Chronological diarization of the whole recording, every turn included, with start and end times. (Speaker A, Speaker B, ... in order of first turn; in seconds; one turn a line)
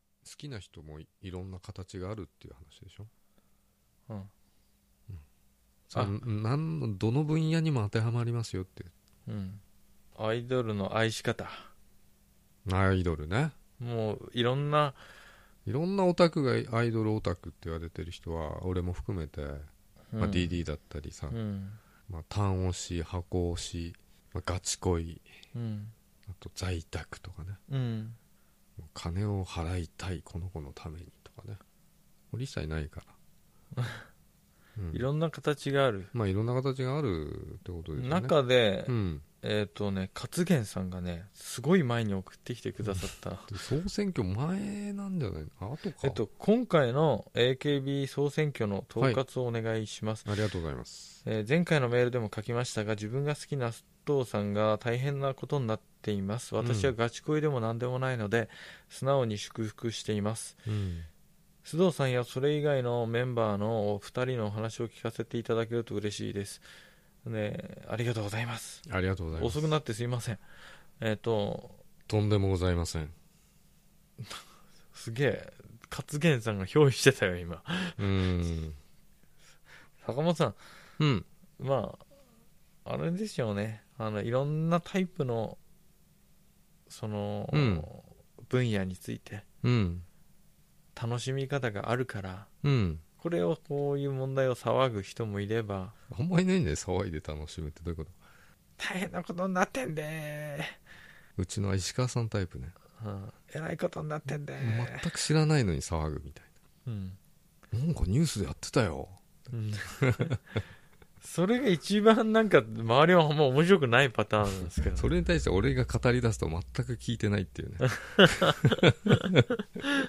Speaker A: 0.2-3.1
Speaker A: 5.9-8.9
Speaker B: 9.3-9.6
Speaker B: 10.2-11.7
Speaker A: 12.7-13.5
Speaker B: 13.8-15.0
Speaker A: 15.7-21.4
Speaker B: 20.1-20.5
Speaker B: 21.3-21.8
Speaker A: 22.1-25.2
Speaker B: 25.5-25.9
Speaker A: 26.3-27.6
Speaker B: 27.7-28.2
Speaker A: 28.8-31.6
Speaker A: 32.3-33.1
Speaker B: 33.8-34.1
Speaker A: 34.8-35.0
Speaker B: 34.9-36.1
Speaker A: 36.1-38.3
Speaker B: 38.0-43.5
Speaker A: 38.9-39.2
Speaker A: 42.8-46.2
Speaker B: 46.0-50.3
Speaker A: 50.2-51.2
Speaker B: 51.2-60.6
Speaker A: 56.6-56.9
Speaker A: 60.6-61.1
Speaker B: 61.6-66.6
Speaker B: 67.2-68.8
Speaker A: 68.8-69.7
Speaker B: 69.3-70.4
Speaker B: 71.0-71.8
Speaker A: 72.1-73.1
Speaker B: 74.9-78.0
Speaker A: 78.0-78.8
Speaker B: 80.0-80.6
Speaker A: 81.0-81.2
Speaker B: 81.6-82.0
Speaker B: 82.8-85.6
Speaker B: 86.9-89.4
Speaker A: 87.5-87.9
Speaker A: 89.6-90.0
Speaker B: 91.0-92.5
Speaker A: 92.6-93.0
Speaker B: 93.2-95.9
Speaker A: 96.1-98.2
Speaker B: 98.8-100.8
Speaker A: 101.4-102.7
Speaker B: 103.0-105.0
Speaker A: 104.6-106.5
Speaker B: 106.8-107.2
Speaker A: 107.7-109.2
Speaker B: 109.5-110.3
Speaker A: 109.8-110.4
Speaker B: 111.2-115.1
Speaker A: 114.9-119.5